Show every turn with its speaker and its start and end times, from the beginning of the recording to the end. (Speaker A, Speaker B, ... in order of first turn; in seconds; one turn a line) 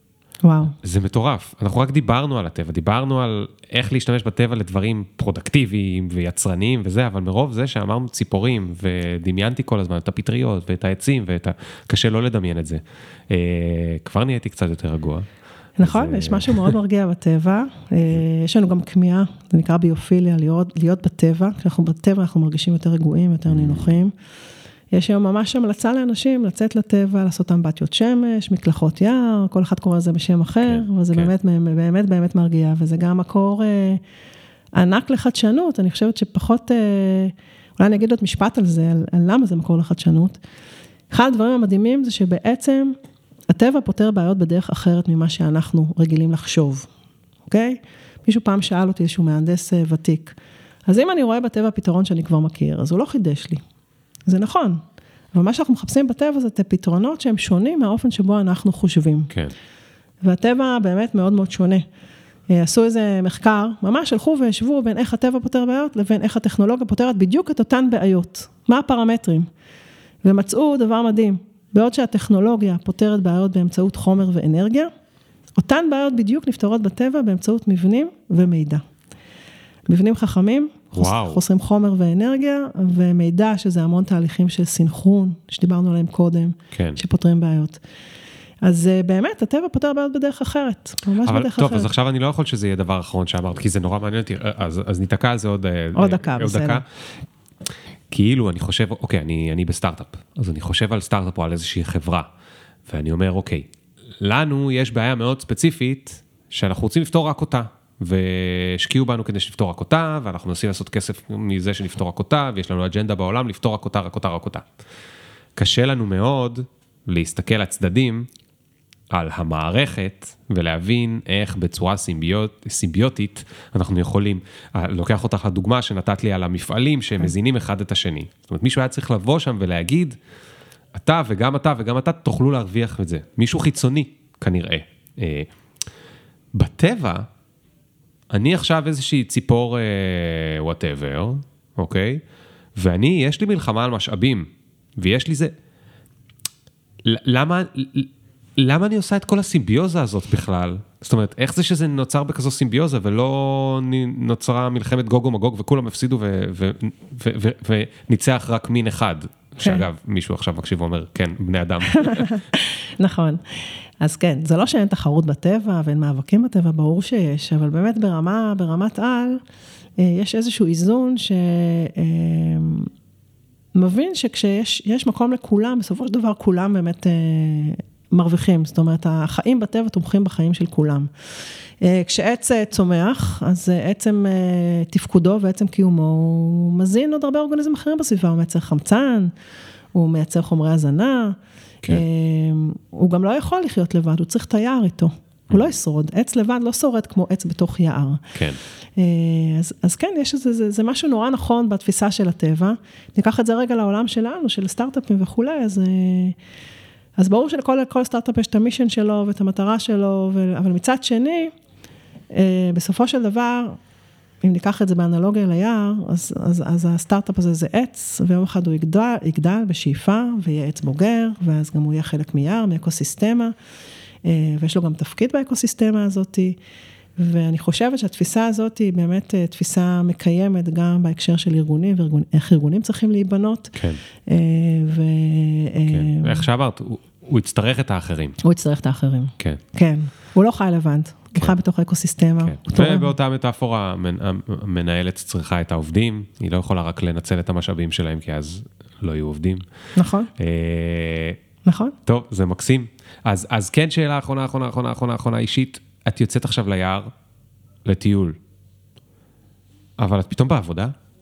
Speaker A: 0.4-0.8
Speaker B: 0.8-15.3
Speaker A: 15.8-24.1
Speaker B: 15.8-16.8
Speaker B: 23.5-24.0
Speaker A: 24.9-34.0
Speaker B: 30.6-31.3
Speaker A: 34.8-40.4
Speaker A: 41.1-43.0
Speaker A: 43.5-46.9
Speaker A: 47.5-50.4
Speaker A: 50.9-53.6
Speaker A: 54.3-54.8
Speaker A: 55.3-59.3
Speaker A: 60.2-61.9
Speaker A: 62.5-69.5
Speaker A: 70.2-74.9
Speaker A: 75.6-78.8
Speaker A: 79.9-87.8
Speaker B: 80.9-81.4
Speaker B: 86.7-87.0
Speaker A: 88.6-91.9
Speaker B: 91.2-96.8
Speaker A: 96.0-96.8
Speaker B: 98.1-102.3
Speaker B: 102.9-103.7
Speaker B: 104.2-114.7
Speaker B: 115.6-118.3
Speaker B: 119.1-130.2
Speaker B: 130.9-135.5
Speaker B: 136.6-137.3
Speaker B: 138.3-142.2
Speaker B: 142.8-145.5
Speaker B: 147.1-162.4
Speaker A: 159.6-159.8
Speaker A: 161.9-169.4
Speaker A: 170.0-172.9
Speaker A: 173.8-181.1
Speaker A: 181.8-189.3
Speaker A: 189.9-198.2
Speaker B: 198.3-198.6
Speaker A: 199.0-206.4
Speaker A: 207.2-211.5
Speaker A: 212.3-213.8
Speaker A: 214.4-223.6
Speaker A: 224.2-226.6
Speaker A: 227.2-236.5
Speaker B: 233.8-234.0
Speaker B: 235.9-238.4
Speaker A: 238.4-243.1
Speaker B: 242.4-249.7
Speaker A: 250.0-250.3
Speaker B: 250.4-251.4
Speaker A: 251.7-251.9
Speaker B: 252.1-257.1
Speaker B: 257.9-258.4
Speaker B: 260.0-260.9